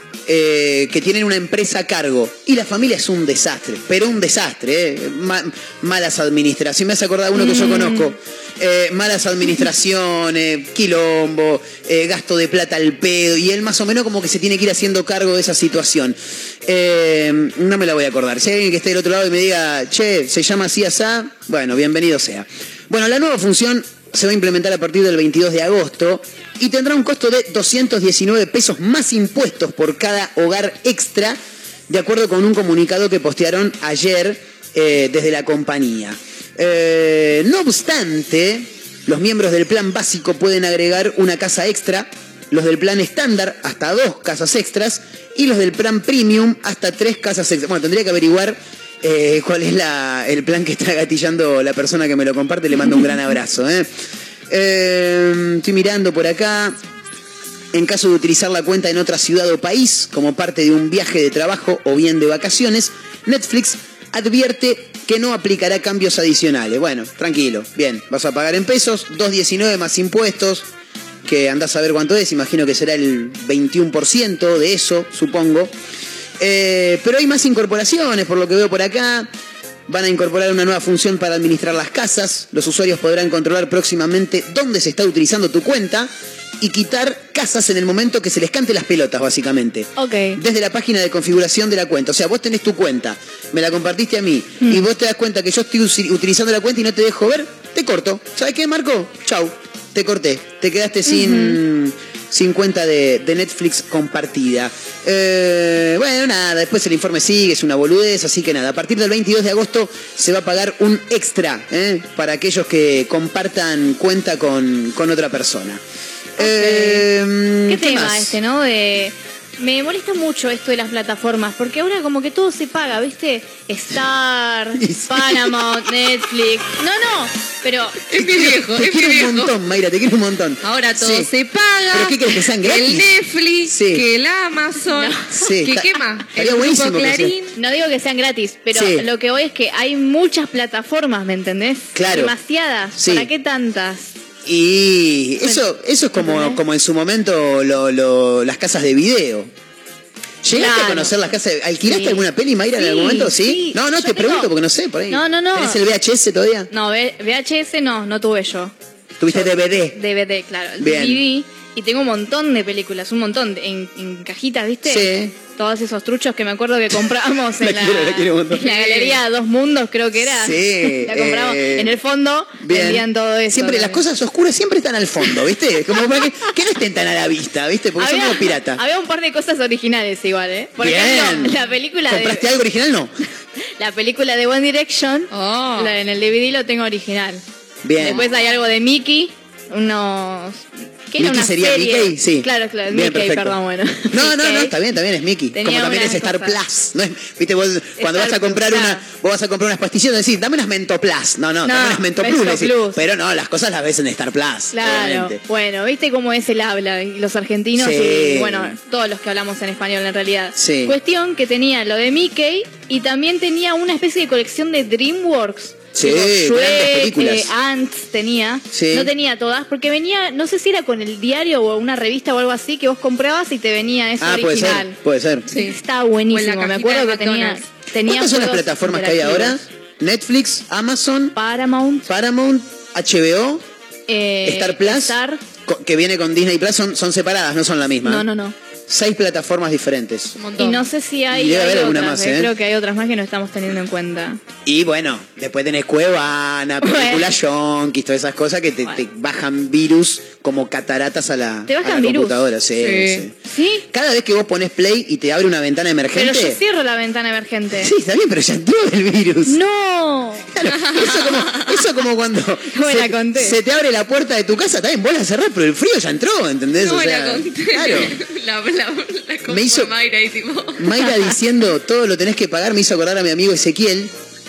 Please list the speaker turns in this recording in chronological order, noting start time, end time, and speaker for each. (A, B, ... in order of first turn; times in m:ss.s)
0:00.3-0:31.4 A
0:07.4-0:08.1 B
0:31.9-0:53.9 A
0:54.5-0:56.8 A
0:57.7-1:10.7 A
1:11.2-1:15.7 A
1:16.4-1:19.3 A
1:19.9-1:55.8 A
1:30.0-1:30.4 B
1:41.1-1:41.6 B
1:56.4-1:58.3 A
1:56.4-1:57.1 B
1:57.7-2:08.0 B
2:04.8-2:05.7 A
2:08.1-2:09.5 C
2:08.1-2:11.3 A
2:10.6-2:17.5 C
2:11.9-2:14.0 A
2:14.9-2:15.3 B
2:15.3-2:17.3 A
2:17.6-2:24.1 B
2:18.7-2:19.1 A
2:22.0-2:22.3 A
2:23.0-2:23.3 A
2:24.5-2:29.5 A
2:25.4-2:26.6 B
2:30.4-2:36.7 A
2:30.5-2:31.2 B
2:31.8-2:32.2 B
2:32.8-2:34.5 B
2:35.1-2:35.8 B
2:36.7-2:38.7 B
2:39.2-2:40.0 A
2:39.3-2:54.0 B
2:40.8-2:41.2 A
2:44.9-2:45.4 A
2:47.6-2:49.1 A
2:50.2-2:52.0 A
2:52.6-2:58.8 A
2:58.0-3:02.5 B
3:00.8-3:03.1 A
3:03.8-3:07.4 B
3:05.3-3:06.0 C
3:07.8-3:08.3 A
3:08.0-3:14.7 B
3:11.2-3:13.6 A
3:14.1-3:25.4 A
3:15.5-3:16.6 B
3:18.0-3:19.0 B
3:21.6-3:23.0 B
3:24.7-3:45.0 B
3:27.8-3:28.8 A
3:30.6-3:31.0 A
3:36.0-3:37.5 A
3:38.7-3:39.1 A
3:44.2-3:45.5 A
3:45.5-3:45.8 C
3:45.5-3:49.6 B
3:46.3-3:47.6 C
3:48.0-3:51.3 A
3:51.4-3:52.1 B
3:52.1-3:53.6 A
3:54.1-3:55.4 B
3:54.4-3:58.3 A
3:58.0-3:58.6 B
3:58.9-4:00.3 A
4:00.4-4:00.9 C
4:00.6-4:04.4 B
4:01.3-4:02.5 A
4:04.6-4:13.3 A
4:06.8-4:07.3 B
4:11.7-4:12.4 B
4:12.8-4:13.3 C
4:13.5-4:13.8 B
4:13.9-4:16.6 A
4:16.1-4:17.9 B
4:17.8-4:19.6 A
4:19.5-4:20.5 B
4:20.6-4:28.2 A
4:20.8-4:21.7 C
4:22.7-4:23.6 B
4:26.8-4:31.1 C
4:29.5-4:29.9 A
4:30.8-4:34.1 A